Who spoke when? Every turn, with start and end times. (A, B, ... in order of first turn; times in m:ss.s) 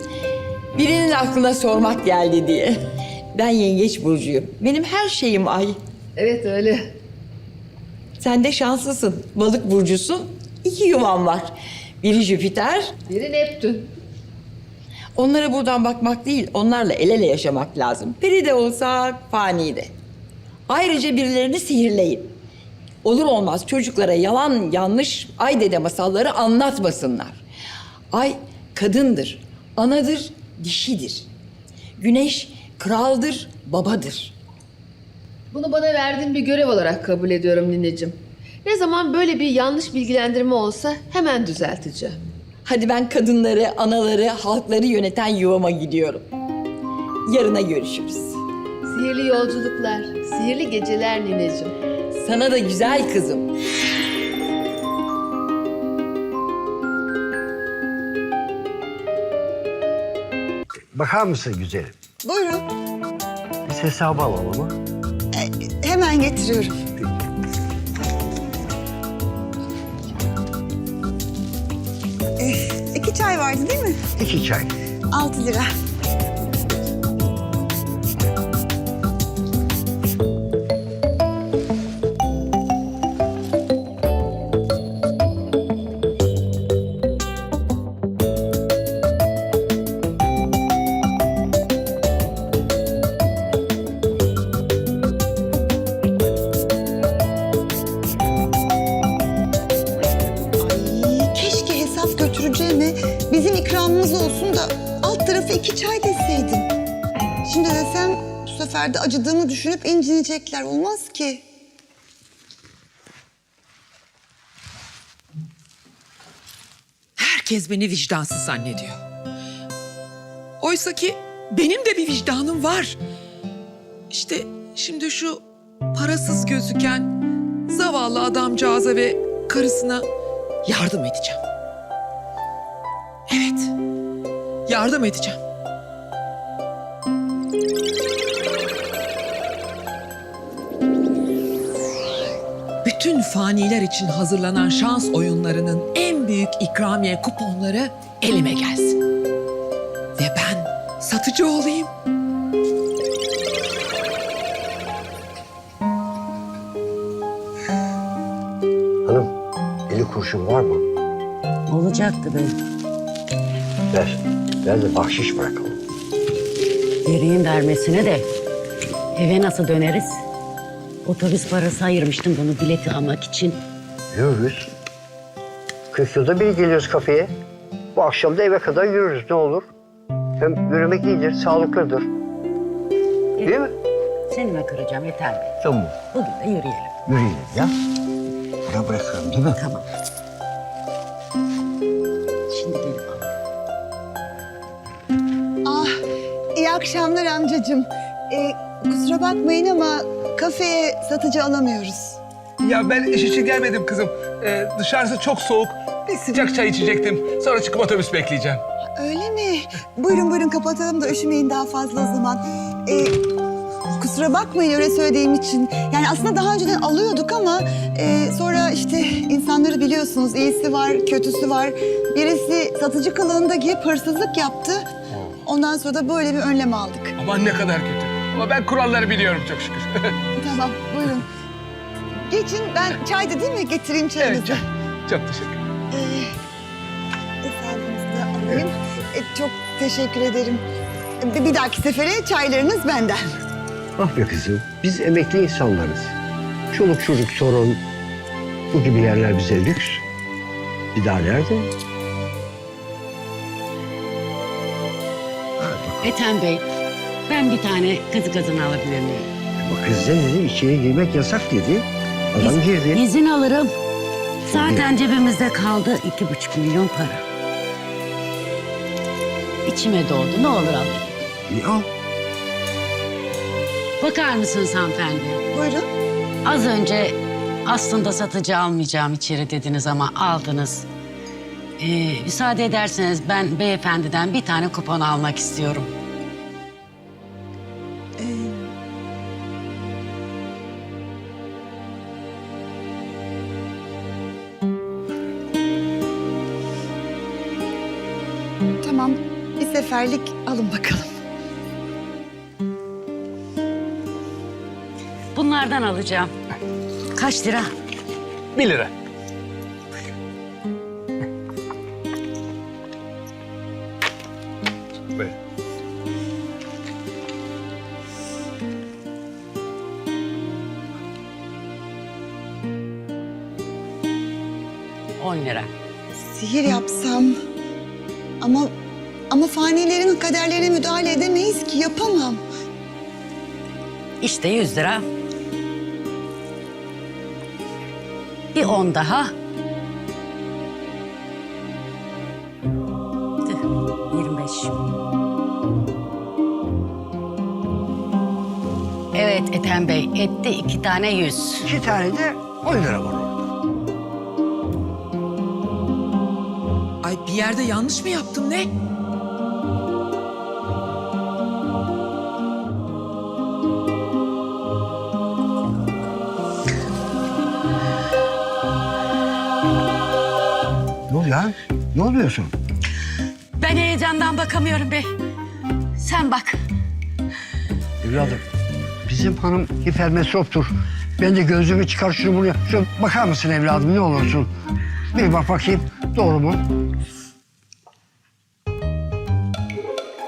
0:00.8-0:02.8 A
0:03.3-0:05.8 A
0:06.2-0:06.9 B
0:08.2-0:12.9 A
0:13.1-0:13.9 B
0:15.2-0:19.9 A
0:20.7-0:22.3 A
0:23.0-0:27.4 A
0:28.1-0:31.3 A
0:32.0-0:34.3 A
0:35.5-0:42.2 B
0:42.6-0:46.3 A
0:47.3-0:48.4 A
0:48.8-0:51.7 B
0:52.1-0:53.5 A
1:00.9-1:01.9 C
1:02.2-1:02.7 D
1:03.7-1:04.8 C
1:05.3-1:06.8 D
1:12.4-1:14.0 D
1:14.2-1:14.7 C
1:15.1-1:15.7 D
1:40.6-1:46.7 D
1:47.4-1:51.4 D
1:57.2-1:59.0 E
2:00.6-2:03.0 E
2:04.1-2:05.4 E
2:05.9-2:07.1 E
2:07.7-2:10.1 E
2:10.6-2:11.4 E
2:13.3-2:13.7 E
2:14.7-2:15.4 E
2:22.8-2:29.0 E
2:30.2-2:31.9 E
2:39.0-2:39.3 C
2:39.9-2:40.8 C
2:41.7-2:42.6 F
2:43.9-2:45.8 C
2:47.0-2:48.3 F
2:49.2-2:50.2 F
2:51.0-2:53.6 F
2:54.1-2:54.7 C
2:55.9-2:57.3 C
2:57.9-2:59.7 C
3:00.4-3:02.1 C
3:03.4-3:03.7 C
3:04.3-3:05.5 F
3:05.6-3:06.0 C
3:06.1-3:06.9 F
3:07.1-3:07.7 C
3:08.7-3:09.6 C
3:09.6-3:09.8 F
3:12.5-3:13.3 F
3:15.6-3:16.0 D
3:16.6-3:22.2 D
3:22.6-3:28.6 G
3:29.0-3:33.2 D
3:33.9-3:44.9 D
3:45.4-3:47.2 D
3:47.2-3:50.2 G
3:50.4-3:51.3 D
3:52.3-3:54.6 D
3:54.2-3:55.6 G
3:55.9-3:56.4 D
3:57.4-4:00.6 D
4:01.2-4:03.2 D
4:04.0-4:06.2 C
4:06.7-4:07.8 C
4:08.7-4:10.0 C
4:10.9-4:11.7 C
4:15.6-4:16.1 C
4:16.0-4:16.6 F
4:17.3-4:19.3 F
4:19.6-4:23.0 C
4:22.4-4:23.7 F
4:24.5-4:27.2 F
4:24.5-4:24.9 C
4:29.6-4:31.1 F
4:31.5-4:31.9 C
4:34.0-4:35.4 F
4:35.5-4:35.9 D
4:36.4-4:40.9 F
4:41.8-4:45.9 F
4:48.2-4:48.7 D
4:58.8-5:01.2 D
5:05.3-5:06.3 F
5:07.2-5:07.7 F
5:08.6-5:08.9 G
5:25.2-5:25.7 F
5:26.2-5:27.4 D
5:28.4-5:28.7 D
5:29.3-5:32.4 D
5:34.2-5:35.0 F
5:38.5-5:39.3 F
5:43.4-5:44.8 F
5:49.1-5:51.7 F
5:51.6-5:53.5 C
5:57.0-5:58.7 E
6:11.1-6:12.6 C
6:13.6-6:15.1 F
6:16.0-6:16.6 F
6:18.0-6:18.4 C
6:19.0-6:24.5 C
6:25.1-6:26.6 C